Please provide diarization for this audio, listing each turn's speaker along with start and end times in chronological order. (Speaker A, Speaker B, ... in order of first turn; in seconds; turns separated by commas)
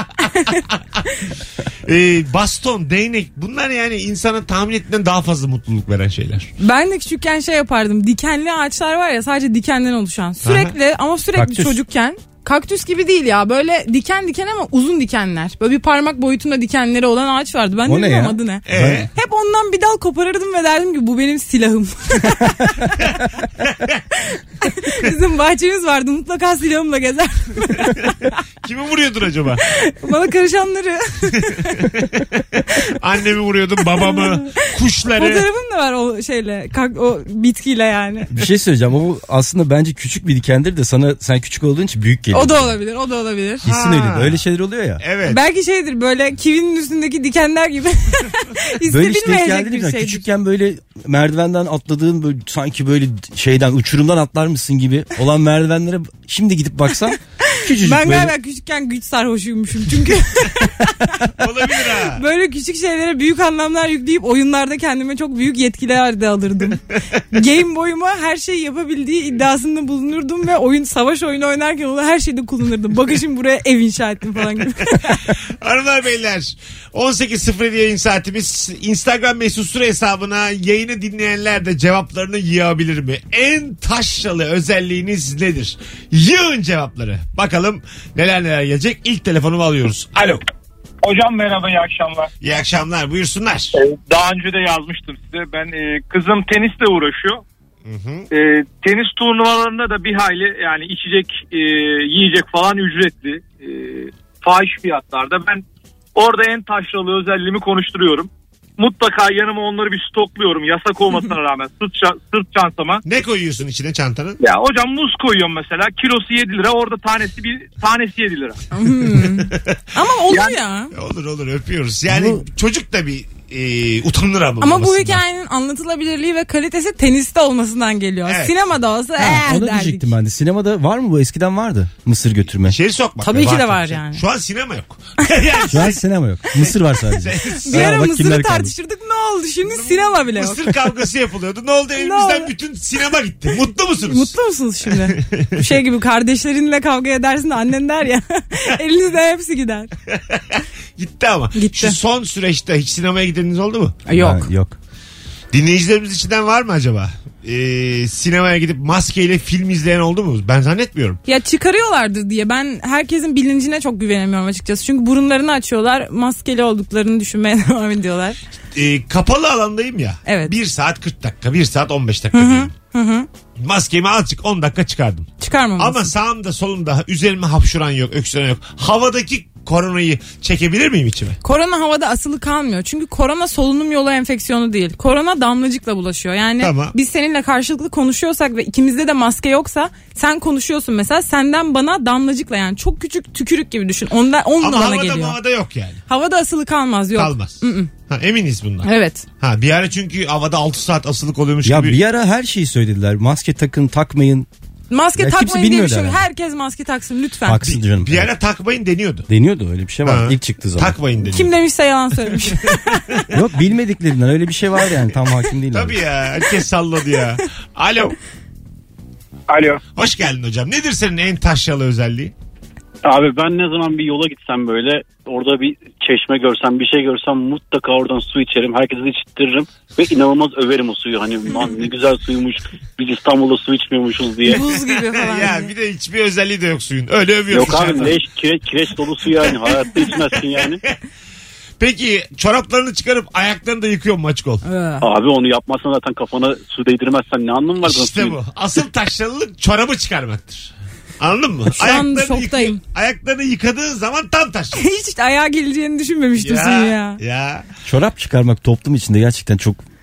Speaker A: 0.2-1.0, Speaker A: 1.8-6.5, Speaker B: 6.6-23.1, Speaker A: 10.4-10.7, Speaker C: 11.3-11.8, Speaker C: 17.8-19.1, Speaker A: 18.7-19.1, Speaker A: 23.6-24.0, Speaker B: 24.6-28.4, Speaker A: 28.6-29.6, Speaker B: 29.6-31.8, Speaker A: 32.9-35.4, Speaker B: 34.0-38.3, Speaker C: 38.3-42.8, Speaker B: 42.3-43.6, Speaker C: 43.6-45.0, Speaker A: 43.6-44.4, Speaker A: 45.0-45.4, Speaker B: 45.2-50.2, Speaker C: 48.9-58.3, Speaker B: 57.7-61.2, Speaker A: 61.3-62.2, Speaker B: 62.0-66.8, Speaker B: 67.3-75.2, Speaker A: 75.6-90.4, Speaker D: 91.0-92.3, Speaker A: 92.4-93.8, Speaker D: 93.7-97.4, Speaker A: 97.8-98.3, Speaker D: 98.3-105.6, Speaker D: 106.2-113.0, Speaker A: 113.0-114.4, Speaker D: 114.4-118.6, Speaker B: 118.7-120.9, Speaker A: 119.5-119.8, Speaker A: 120.9-125.2, Speaker C: 122.1-122.4, Speaker B: 124.6-130.1, Speaker A: 128.2-128.5, Speaker C: 129.2-132.8, Speaker A: 132.7-136.0, Speaker B: 133.2-134.2, Speaker C: 135.7-138.7, Speaker A: 137.2-138.0, Speaker B: 137.6-140.8, Speaker A: 139.7-144.3, Speaker B: 142.0-142.5, Speaker B: 144.0-149.9, Speaker A: 144.9-145.7, Speaker A: 150.1-153.9, Speaker B: 151.5-152.0, Speaker B: 154.1-154.4, Speaker C: 154.1-154.8, Speaker A: 155.5-161.2, Speaker B: 161.2-168.4, Speaker A: 168.7-172.7, Speaker B: 170.2-170.5, Speaker B: 172.3-173.3, Speaker A: 173.6-181.4, Speaker B: 175.4-176.1, Speaker B: 181.4-195.4, Speaker A: 186.6-186.9, Speaker A: 194.6-196.0, Speaker B: 196.1-197.9, Speaker A: 197.2-202.0, Speaker B: 198.8-199.2, Speaker C: 201.6-204.5, Speaker B: 204.9-207.6, Speaker C: 205.2-206.2, Speaker C: 207.4-208.3, Speaker A: 207.6-209.3, Speaker C: 209.3-210.9, Speaker A: 210.0-211.5, Speaker B: 211.2-213.2, Speaker A: 212.7-213.2, Speaker C: 213.3-216.0, Speaker A: 215.7-218.2, Speaker D: 219.5-219.8, Speaker A: 219.9-222.3, Speaker E: 223.0-234.6, Speaker B: 234.4-235.7, Speaker A: 234.5-238.2, Speaker E: 237.5-240.8, Speaker A: 239.3-239.8, Speaker A: 241.8-244.6, Speaker B: 244.6-245.0, Speaker E: 245.0-248.4, Speaker A: 247.8-254.9, Speaker B: 251.7-252.8, Speaker B: 254.7-257.2, Speaker A: 256.4-257.6, Speaker C: 257.9-259.8